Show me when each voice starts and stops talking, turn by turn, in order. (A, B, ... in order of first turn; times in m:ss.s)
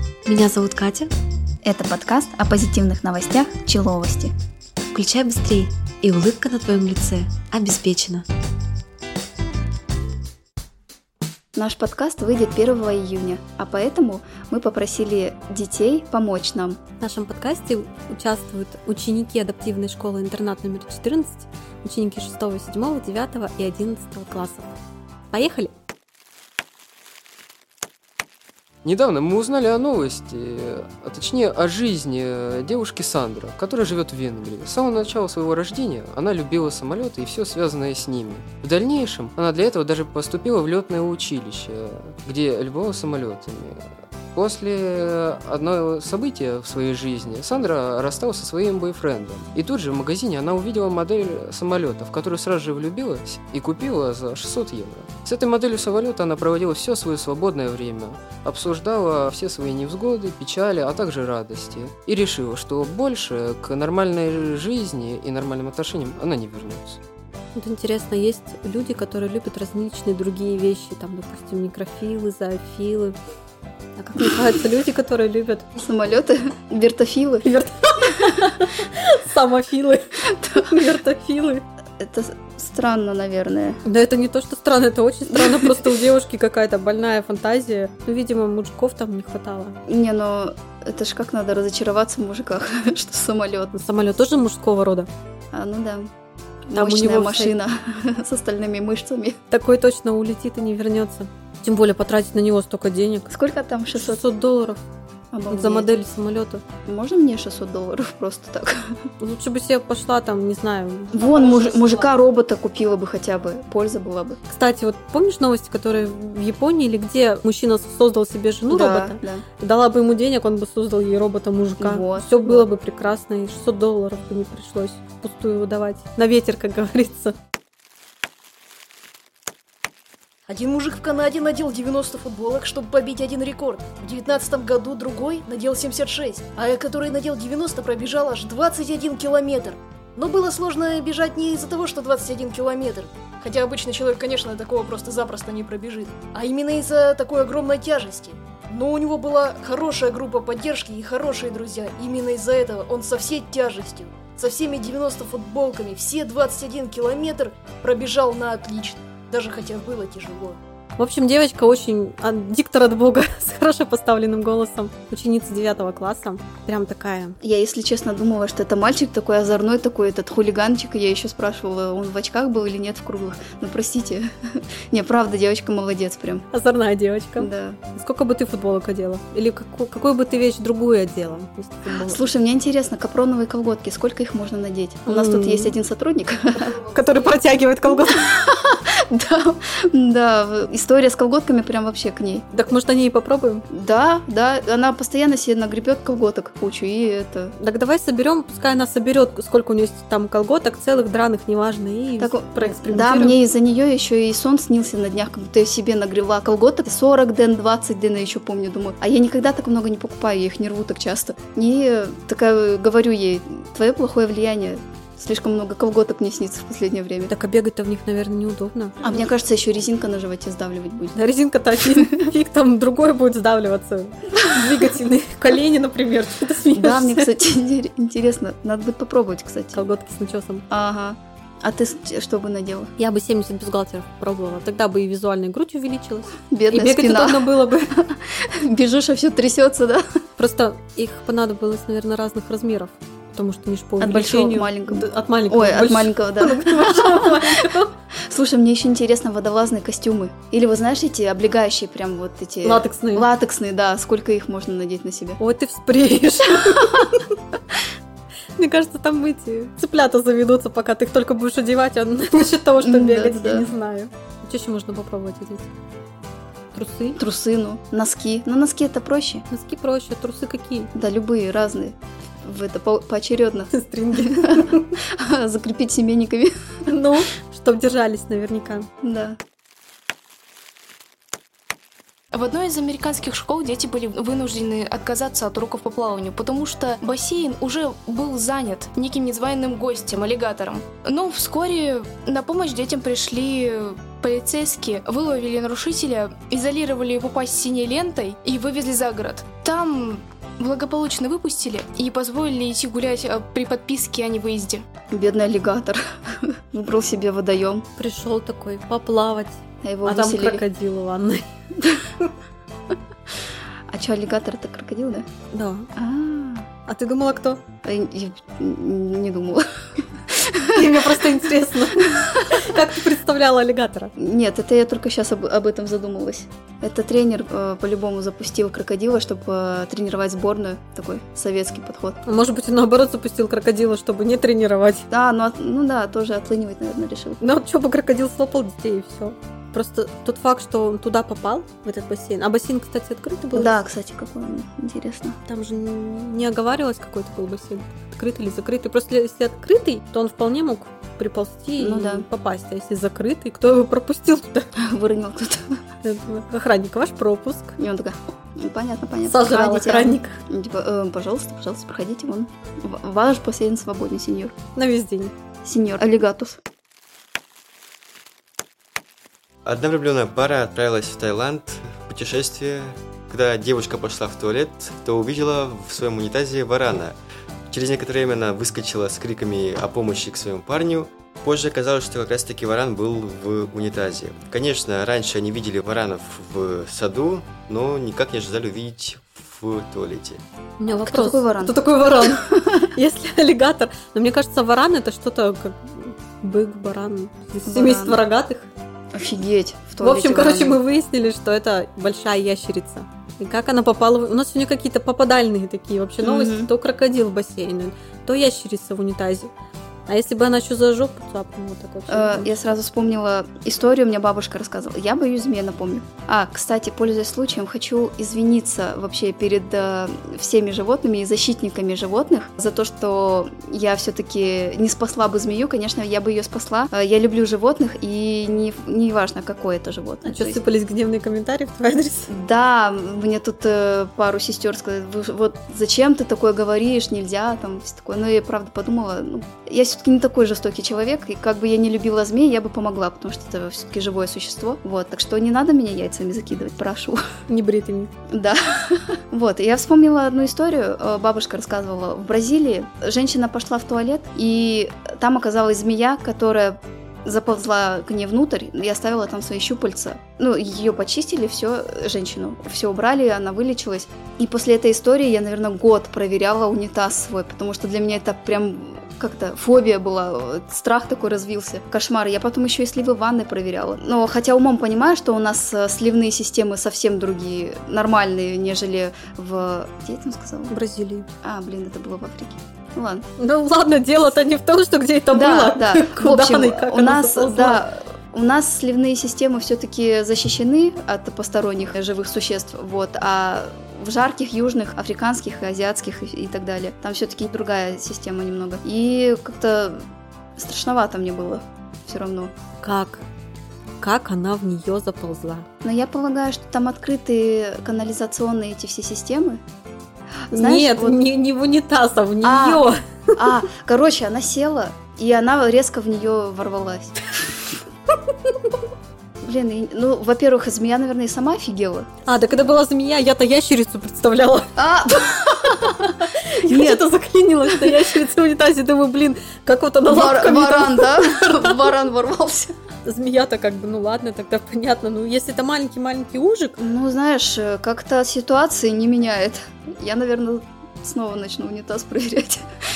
0:00.3-0:01.0 A
0:01.6-0:04.3 B
0:05.0-0:08.2 A
0:05.0-0:05.5 C
0:06.0-0:06.4 C
0:07.1-0:08.1 C
0:11.5-0:16.8 B
0:17.0-0:24.7 C
0:25.3-0:25.7 C
0:28.8-1:07.0 D
1:07.5-1:13.2 C
1:14.0-1:15.7 C
1:15.8-1:17.5 B
1:17.4-1:21.6 C
1:20.3-1:20.6 B
1:22.0-1:23.8 B
1:23.8-1:29.8 C
1:25.3-1:25.9 B
1:29.9-1:33.7 B
1:33.7-1:35.1 C
1:35.5-1:36.1 B
1:36.6-1:39.4 B
1:36.7-1:37.5 C
1:39.5-1:43.3 C
1:43.3-1:44.2 B
1:43.9-1:44.8 C
1:45.3-1:45.9 B
1:45.5-1:46.6 C
1:46.9-1:48.8 B
1:49.2-1:51.1 C
1:51.1-1:54.4 B
1:54.5-2:07.3 C
1:58.7-1:59.4 B
2:01.8-2:02.7 B
2:10.5-2:40.6 E
2:41.0-2:47.3 C
2:47.4-2:54.3 B
2:54.9-2:56.4 B
2:56.5-3:02.3 C
2:57.4-2:57.8 B
3:01.9-3:06.8 B
3:05.0-3:05.8 C
3:06.6-3:08.2 C
3:08.0-3:12.4 B
3:12.5-3:13.6 C
3:13.7-3:17.5 B
3:17.6-3:23.4 C
3:22.2-3:37.3 B
3:37.3-3:39.2 C
3:39.0-3:41.2 B
3:41.1-3:47.3 C
3:41.8-3:42.2 B
3:46.7-3:49.8 B
3:49.7-3:50.6 C
3:50.7-3:52.9 B
3:53.0-3:57.9 C
3:56.5-4:00.0 B
4:00.4-4:07.9 C
4:04.0-4:07.6 B
4:08.3-4:15.4 B
4:12.6-4:13.3 C
4:15.4-4:17.3 C
4:16.8-4:17.0 B
4:18.6-4:25.7 C
4:22.8-4:23.7 B
4:26.7-4:27.2 C
4:27.2-4:29.4 B
4:29.5-4:30.9 C
4:30.9-4:36.5 B
4:33.7-4:34.9 C
4:36.9-4:38.9 C
4:39.0-4:39.4 B
4:42.3-5:04.8 F
5:05.1-5:07.8 B
5:08.0-5:11.5 C
5:09.8-5:10.6 B
5:13.9-5:15.2 B
5:15.5-5:15.9 C
5:16.0-5:16.7 B
5:16.9-5:17.6 C
5:17.8-5:19.6 B
5:20.3-5:20.8 B
5:20.7-5:24.1 C
5:24.2-5:32.2 B
5:32.2-5:35.0 C
5:35.1-5:37.4 B
5:37.4-5:43.7 C
5:43.5-5:45.4 B
5:45.4-5:54.7 C
5:51.8-5:52.2 B
5:54.8-5:55.6 B
5:56.0-5:57.8 C
5:57.8-6:04.5 B
5:59.2-6:00.4 C
6:04.8-6:05.3 C
6:05.6-6:06.6 B
6:09.6-6:17.2 G
6:17.7-6:30.4 G
6:30.8-6:38.7 C
6:31.0-6:32.9 B
6:37.6-6:38.2 B
6:39.1-6:40.8 B
6:40.0-6:49.5 C
6:46.2-6:46.7 B
6:50.1-6:52.7 C
6:52.1-7:10.6 B
7:10.2-7:12.3 C
7:12.3-7:27.2 B
7:27.5-7:28.1 C
7:28.3-8:00.7 B
8:00.7-8:01.2 C
8:01.4-8:03.2 B
8:03.4-8:07.8 C
8:05.3-8:20.0 B
8:20.6-8:22.5 B
8:22.8-8:23.2 C
8:24.0-8:25.6 C
8:25.8-8:29.6 B
8:30.5-8:31.2 B
8:30.5-8:33.0 C
8:32.4-8:37.2 B
8:39.4-8:42.1 B
8:42.2-8:44.7 C
8:44.8-8:47.0 B
8:46.4-8:51.7 C
8:47.7-8:48.0 B
8:50.1-8:52.7 B
8:53.0-8:56.8 C
8:56.8-9:02.6 B